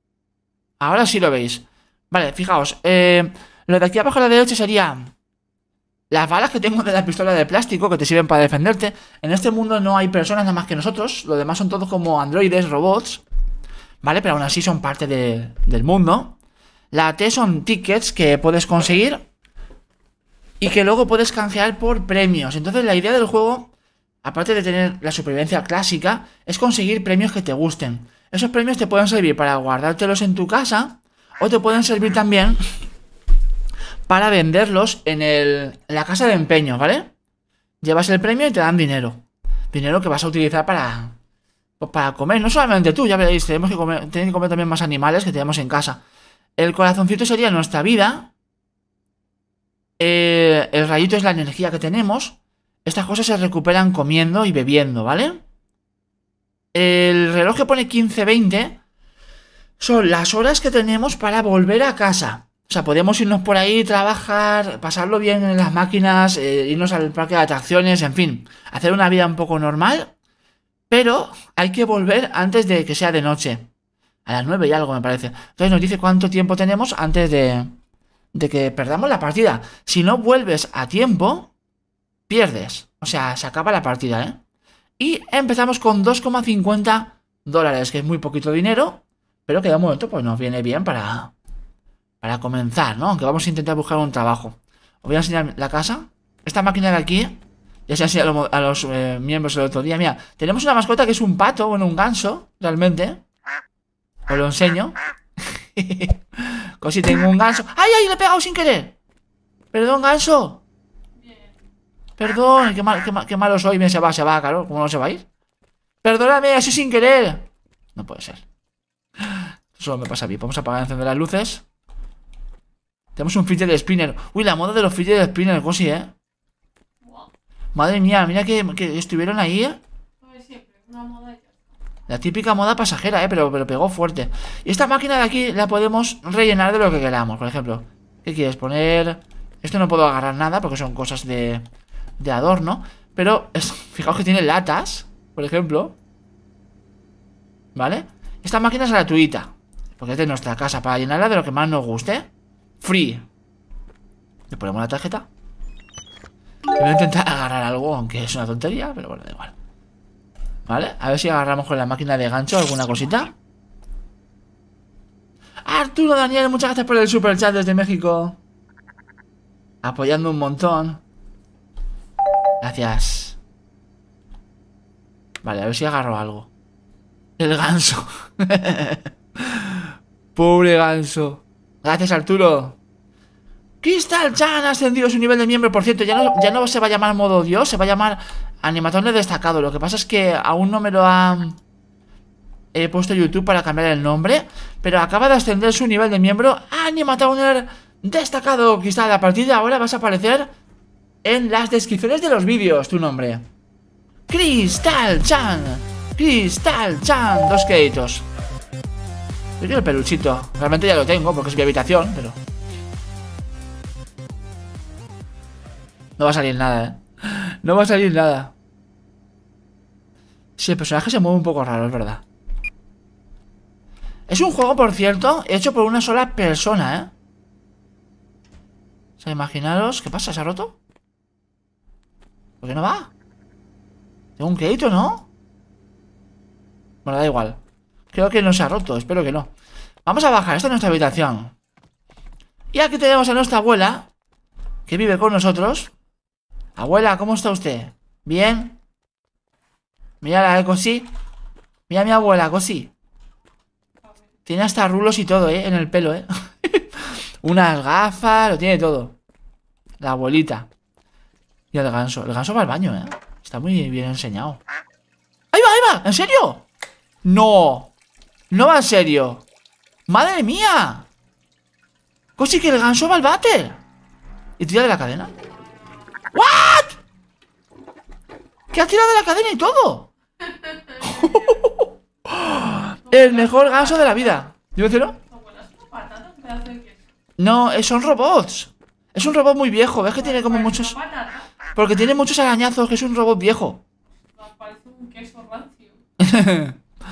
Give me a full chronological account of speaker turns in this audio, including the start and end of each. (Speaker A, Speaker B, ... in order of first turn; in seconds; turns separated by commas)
Speaker A: 0.8-5.1, Speaker A: 6.1-13.2, Speaker A: 14.0-16.4, Speaker A: 16.9-19.2, Speaker A: 20.6-23.7, Speaker A: 24.2-32.6, Speaker A: 34.1-37.1, Speaker A: 37.8-41.2, Speaker A: 41.8-46.0, Speaker A: 46.6-48.3, Speaker A: 50.0-55.4, Speaker A: 56.8-58.8, Speaker A: 59.8-70.1, Speaker A: 70.9-73.7, Speaker A: 74.3-77.7, Speaker A: 78.3-81.5, Speaker A: 82.3-84.4, Speaker A: 85.0-91.3, Speaker A: 92.2-103.2, Speaker A: 104.3-109.0, Speaker A: 109.7-110.6, Speaker B: 111.2-111.5, Speaker A: 112.2-115.2, Speaker A: 116.0-117.5, Speaker A: 118.0-118.4, Speaker A: 119.2-121.6, Speaker A: 123.2-126.1, Speaker B: 127.0-127.3, Speaker A: 127.8-129.8, Speaker B: 130.2-131.6, Speaker A: 132.1-141.6, Speaker A: 142.2-146.0, Speaker A: 147.8-152.3, Speaker A: 152.8-153.2, Speaker A: 154.5-155.3, Speaker A: 156.8-159.5, Speaker A: 160.7-163.3, Speaker A: 165.7-168.4, Speaker A: 169.8-171.0, Speaker A: 172.6-173.4, Speaker A: 175.4-176.5, Speaker A: 177.4-182.8, Speaker A: 183.8-191.6, Speaker A: 192.7-200.5, Speaker A: 201.2-203.4, Speaker A: 204.3-208.2, Speaker A: 209.6-212.4, Speaker A: 216.2-218.5, Speaker A: 220.6-222.2, Speaker A: 224.3-227.1, Speaker A: 229.2-230.8, Speaker A: 232.6-233.1, Speaker A: 234.4-235.3, Speaker A: 237.1-237.6, Speaker A: 238.1-239.5, Speaker A: 240.1-241.5, Speaker A: 242.7-244.1, Speaker A: 244.9-245.9, Speaker A: 246.8-248.8, Speaker A: 250.2-251.1, Speaker A: 251.9-252.9, Speaker B: 254.0-254.3, Speaker A: 254.5-259.2, Speaker A: 260.0-260.7, Speaker A: 261.7-264.6, Speaker A: 265.5-266.6, Speaker A: 267.2-267.9, Speaker A: 268.5-269.4, Speaker A: 270.1-271.1, Speaker A: 272.4-273.8, Speaker A: 274.6-275.3, Speaker B: 275.9-276.2, Speaker A: 276.3-277.0, Speaker A: 278.7-280.1, Speaker B: 280.4-281.6, Speaker A: 281.0-285.2, Speaker B: 283.1-284.4, Speaker B: 285.3-287.0, Speaker A: 287.4-290.9, Speaker B: 290.2-291.5, Speaker A: 291.8-293.8, Speaker B: 294.3-296.0, Speaker A: 296.2-296.8